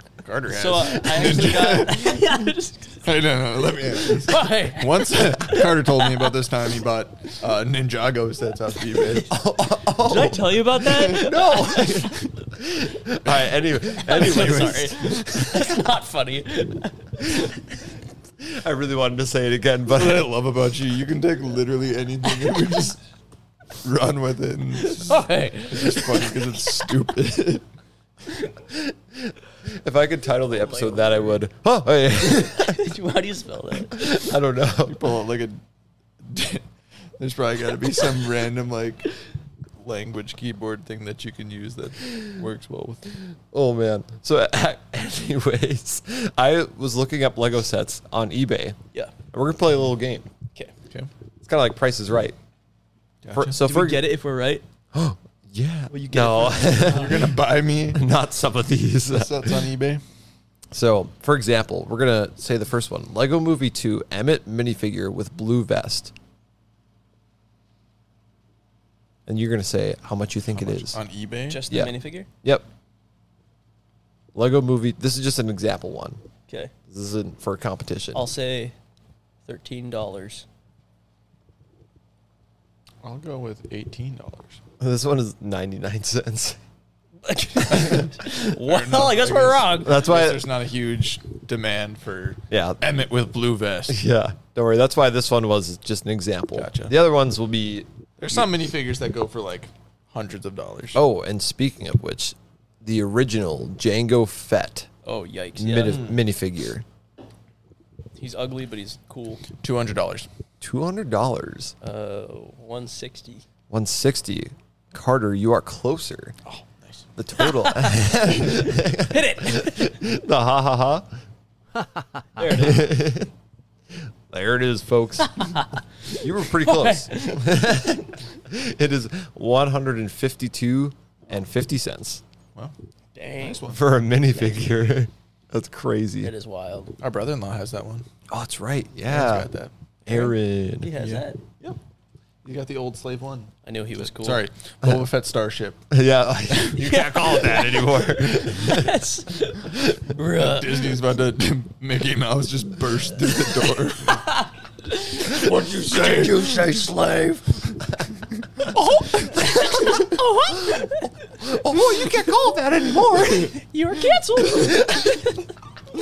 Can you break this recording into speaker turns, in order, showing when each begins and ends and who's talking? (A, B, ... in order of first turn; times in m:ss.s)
0:00.2-0:02.4 A
0:00.5-0:03.1 B
0:03.0-0:09.3 A
0:04.0-0:06.3 B
0:09.2-0:15.7 C
0:10.0-0:12.2 B
0:13.2-0:15.3 A
0:14.0-0:17.6 B
0:18.4-0:20.3 C
0:19.9-0:23.0 A
0:23.8-0:27.6 A
0:24.8-0:26.8 B
0:28.7-0:32.9 C
0:30.5-0:31.4 B
0:32.2-0:34.3 B
0:33.9-0:35.0 C
0:34.8-0:35.6 A
0:36.2-0:36.6 A
0:37.2-0:39.1 A
0:39.8-0:43.1 A
0:43.5-0:48.8 C
0:49.3-0:50.3 C
0:51.4-0:52.4 C
0:53.2-0:53.6 A
0:53.3-0:54.1 C
0:53.5-0:54.6 B
0:54.9-0:57.3 C
0:55.9-0:57.1 B
0:56.7-0:58.1 A
0:57.9-0:59.7 C
0:59.1-1:00.0 A
1:00.7-1:06.1 C
1:09.3-1:11.0 C
1:10.5-1:11.6 A
1:11.5-1:12.3 B
1:11.7-1:12.7 C
1:14.4-1:16.2 C
1:16.5-1:16.7 B
1:16.9-1:18.3 C
1:18.1-1:18.8 B
1:19.5-1:20.5 B
1:23.0-1:24.6 A
1:24.8-1:26.6 C
1:27.2-1:30.1 B
1:27.8-1:34.0 A
1:29.8-1:30.5 C
1:32.5-1:32.9 C
1:33.9-1:38.5 C
1:36.5-1:36.9 A
1:38.2-1:41.0 A
1:41.0-1:44.9 C
1:45.0-1:46.1 B
1:45.6-1:46.8 C
1:48.2-1:49.4 B
1:49.6-1:50.3 A
1:50.6-1:51.8 C
1:51.8-1:53.4 B
1:53.7-1:56.4 C
1:56.4-1:57.1 A
1:57.2-2:01.1 C
1:57.4-2:00.0 B
2:02.4-2:03.0 B
2:02.5-2:03.3 C
2:04.3-2:05.5 C
2:05.3-2:07.5 B
2:06.1-2:12.2 C
2:13.2-2:13.7 B
2:13.4-2:13.9 A
2:13.7-2:16.3 C
2:14.3-2:14.9 B
2:16.2-2:17.0 B
2:17.0-2:18.1 A
2:18.3-2:19.5 C
2:19.0-2:19.7 A
2:20.1-2:20.9 C
2:20.1-2:21.4 B
2:21.0-2:21.8 A
2:22.4-2:25.8 A
2:23.6-2:24.4 B
2:25.9-2:29.0 C
2:26.8-2:31.0 B
2:30.3-2:34.3 A
2:34.1-2:37.4 B
2:35.2-2:36.7 A
2:36.0-2:37.2 C
2:38.6-2:41.8 B
2:41.4-2:43.6 C
2:43.5-2:45.4 B
2:44.6-2:44.9 C